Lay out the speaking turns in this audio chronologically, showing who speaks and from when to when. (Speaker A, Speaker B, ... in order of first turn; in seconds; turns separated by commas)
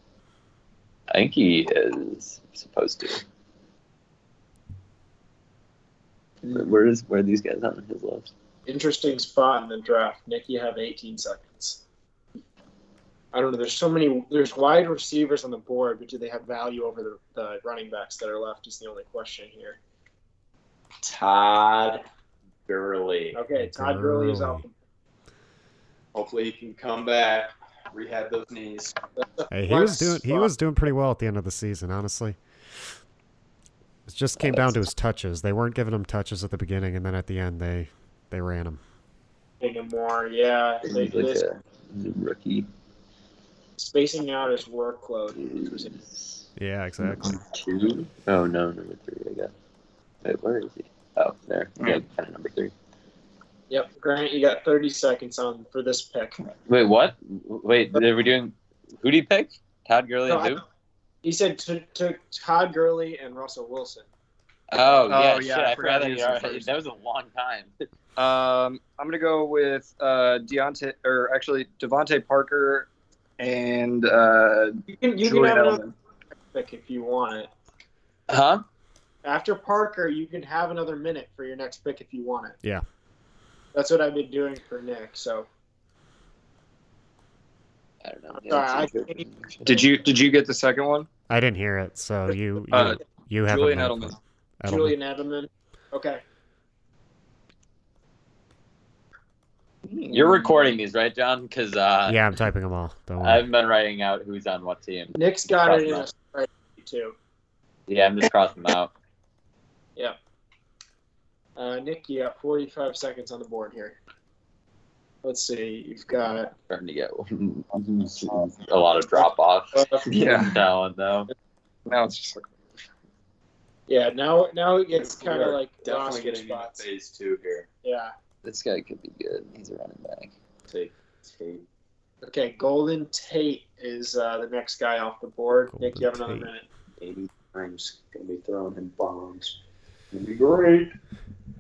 Speaker A: 1.1-3.2, Speaker A: 6.5-8.3, Speaker B: 8.7-11.8, Speaker B: 13.3-19.8, Speaker C: 21.0-22.0, Speaker C: 22.6-23.4, Speaker B: 23.3-24.7, Speaker D: 23.6-24.6, Speaker C: 26.1-28.9, Speaker B: 29.2-30.5, Speaker D: 29.5-32.4, Speaker D: 34.1-38.8, Speaker B: 39.6-41.4, Speaker A: 40.8-42.7, Speaker B: 43.8-45.9, Speaker A: 45.4-46.4, Speaker D: 46.5-47.4, Speaker A: 47.0-49.5, Speaker A: 50.2-52.7, Speaker E: 51.8-52.0, Speaker B: 53.7-56.4, Speaker A: 56.7-60.6, Speaker B: 60.3-60.6, Speaker B: 61.2-64.1, Speaker A: 64.7-67.7, Speaker E: 65.1-66.7, Speaker E: 68.2-75.9, Speaker B: 74.9-75.8, Speaker B: 76.5-77.5, Speaker A: 78.3-78.6, Speaker B: 79.2-82.5, Speaker B: 83.7-85.5, Speaker A: 88.0-89.9, Speaker B: 88.3-89.2, Speaker E: 89.6-91.1, Speaker D: 91.3-95.0, Speaker E: 92.7-94.2, Speaker B: 94.7-96.2, Speaker E: 99.8-100.6, Speaker A: 100.1-102.2, Speaker D: 102.1-103.4, Speaker A: 103.2-106.0, Speaker B: 105.1-107.1, Speaker A: 107.9-108.9, Speaker B: 111.5-114.0, Speaker B: 115.2-116.5, Speaker A: 116.7-121.3, Speaker B: 119.7-120.1, Speaker E: 120.1-120.6, Speaker E: 121.8-122.5, Speaker B: 123.9-126.8, Speaker C: 125.0-127.7, Speaker B: 127.8-128.1, Speaker A: 128.4-130.3, Speaker C: 130.7-131.6, Speaker B: 132.2-136.6, Speaker D: 135.7-136.5, Speaker C: 137.0-139.6, Speaker C: 140.1-140.9